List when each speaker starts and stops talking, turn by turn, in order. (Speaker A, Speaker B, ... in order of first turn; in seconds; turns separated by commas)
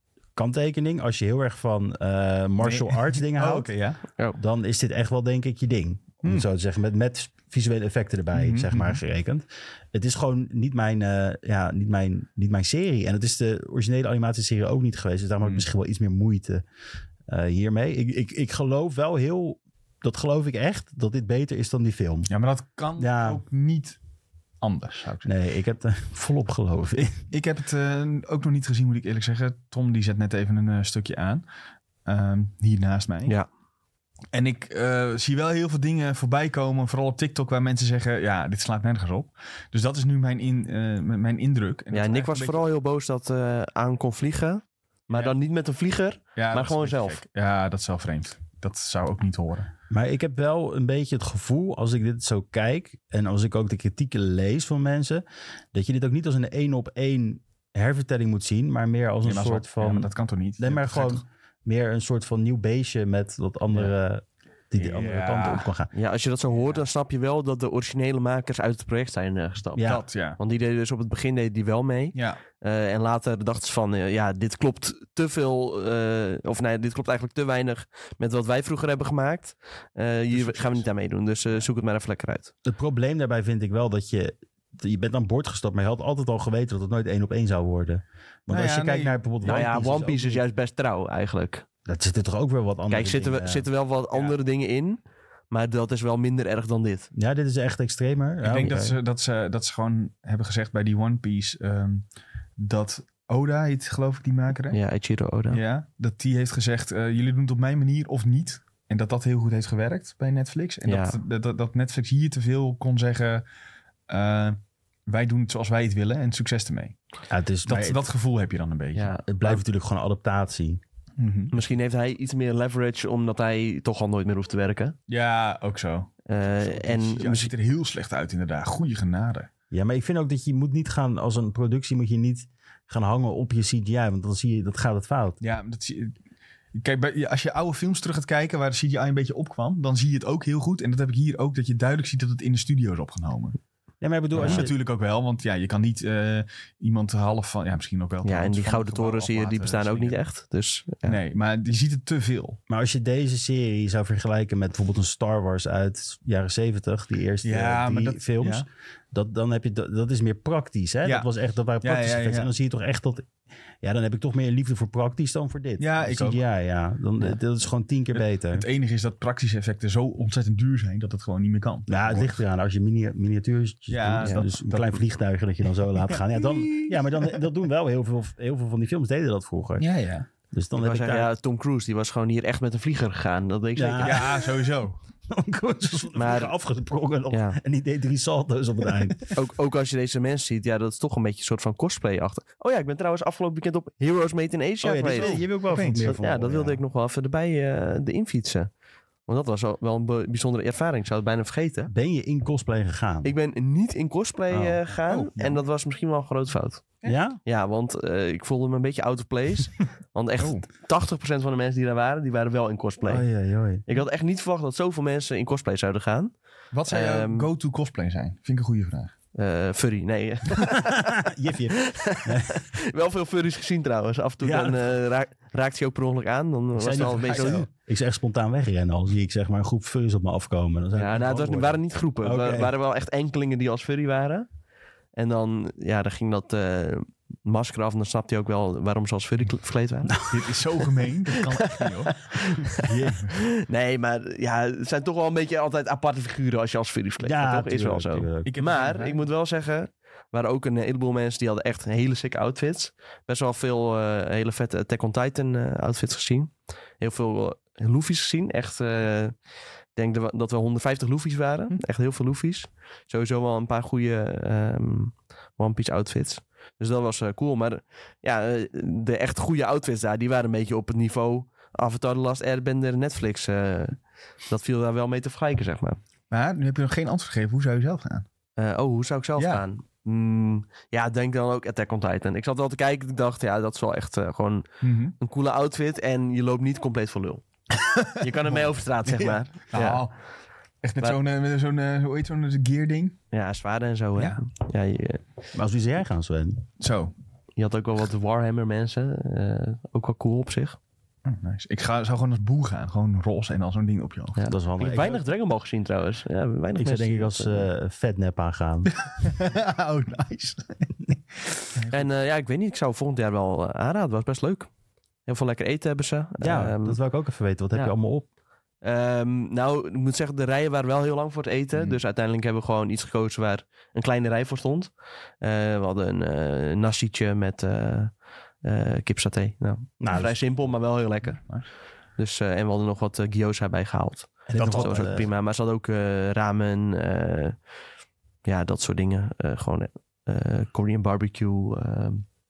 Speaker A: 0.3-3.7, Speaker B: 2.6-4.0, Speaker A: 4.4-16.6, Speaker B: 8.3-9.0, Speaker A: 17.3-22.3, Speaker B: 22.3-24.0, Speaker A: 23.0-23.4, Speaker B: 24.6-25.3, Speaker A: 25.2-27.2, Speaker B: 27.3-31.5, Speaker B: 32.0-33.3, Speaker B: 34.3-42.6, Speaker C: 41.9-47.2, Speaker B: 46.4-49.7, Speaker A: 49.9-65.9, Speaker B: 59.2-61.2, Speaker B: 64.8-65.7, Speaker C: 65.9-82.5, Speaker A: 69.8-70.0, Speaker B: 69.8-70.4, Speaker B: 72.2-72.4, Speaker B: 80.3-80.9, Speaker A: 82.7-90.4, Speaker B: 88.5-89.2, Speaker C: 89.4-91.7, Speaker A: 91.9-93.7, Speaker C: 92.9-95.0, Speaker C: 95.5-97.1, Speaker A: 97.2-99.0, Speaker B: 98.4-104.8, Speaker C: 104.7-105.6, Speaker B: 105.5-113.5, Speaker C: 110.9-111.2, Speaker B: 114.1-117.0, Speaker A: 117.3-118.0, Speaker B: 117.7-119.6, Speaker C: 119.0-119.2, Speaker A: 119.3-120.8, Speaker B: 121.2-121.6, Speaker C: 121.5-125.0, Speaker B: 125.1-129.5, Speaker C: 126.3-127.5, Speaker A: 129.7-135.4, Speaker B: 135.4-136.2, Speaker B: 136.7-143.6, Speaker A: 144.0-144.7, Speaker B: 144.3-150.2, Speaker C: 144.4-144.7, Speaker C: 148.2-151.2, Speaker B: 151.0-152.6, Speaker A: 152.7-163.3, Speaker B: 157.4-158.7, Speaker B: 161.0-161.3, Speaker B: 161.8-162.5, Speaker A: 163.8-168.7, Speaker B: 165.8-166.4, Speaker B: 168.1-172.4, Speaker A: 171.9-179.9, Speaker B: 173.9-175.0, Speaker B: 176.1-177.3, Speaker B: 179.8-180.3, Speaker A: 180.5-181.3, Speaker C: 180.8-184.3, Speaker A: 183.8-184.5, Speaker B: 184.0-185.0, Speaker A: 185.3-189.3, Speaker C: 186.2-186.5, Speaker C: 187.3-187.6, Speaker C: 189.3-195.4, Speaker A: 194.8-196.8, Speaker B: 195.1-196.1, Speaker C: 196.0-198.7, Speaker C: 199.3-201.9, Speaker A: 201.9-203.3, Speaker C: 203.2-213.3, Speaker B: 204.5-205.6, Speaker A: 207.1-207.4, Speaker B: 210.4-210.6, Speaker A: 213.1-213.8, Speaker C: 213.9-216.3, Speaker B: 216.7-219.1, Speaker C: 216.9-217.5, Speaker C: 219.3-227.7, Speaker A: 220.8-222.6, Speaker A: 224.4-224.9, Speaker A: 226.8-232.7, Speaker B: 227.1-227.6, Speaker C: 231.0-234.5, Speaker C: 235.1-240.3, Speaker B: 240.3-242.2, Speaker C: 241.5-259.4, Speaker A: 242.8-243.2, Speaker B: 242.8-243.3, Speaker A: 247.2-248.5, Speaker B: 248.4-249.2, Speaker C: 260.0-274.0, Speaker C: 274.5-276.0, Speaker B: 276.3-278.3, Speaker C: 278.6-284.7, Speaker B: 279.4-279.6, Speaker B: 284.8-285.2, Speaker C: 285.2-287.4, Speaker B: 287.7-290.2, Speaker C: 288.2-290.1, Speaker B: 290.8-293.2, Speaker C: 293.3-295.2, Speaker B: 294.2-294.4, Speaker A: 295.5-296.6, Speaker B: 296.8-297.1, Speaker C: 297.6-300.8, Speaker B: 301.2-304.4, Speaker C: 304.4-307.7, Speaker A: 304.4-305.2, Speaker A: 306.8-309.0, Speaker B: 309.1-310.9, Speaker B: 311.7-312.1, Speaker C: 311.9-314.7, Speaker C: 315.3-317.0, Speaker A: 316.4-318.3, Speaker C: 318.8-331.5, Speaker A: 330.0-330.4, Speaker B: 331.2-331.6, Speaker C: 332.2-337.6, Speaker A: 334.5-335.3, Speaker B: 334.6-335.1, Speaker C: 338.4-342.2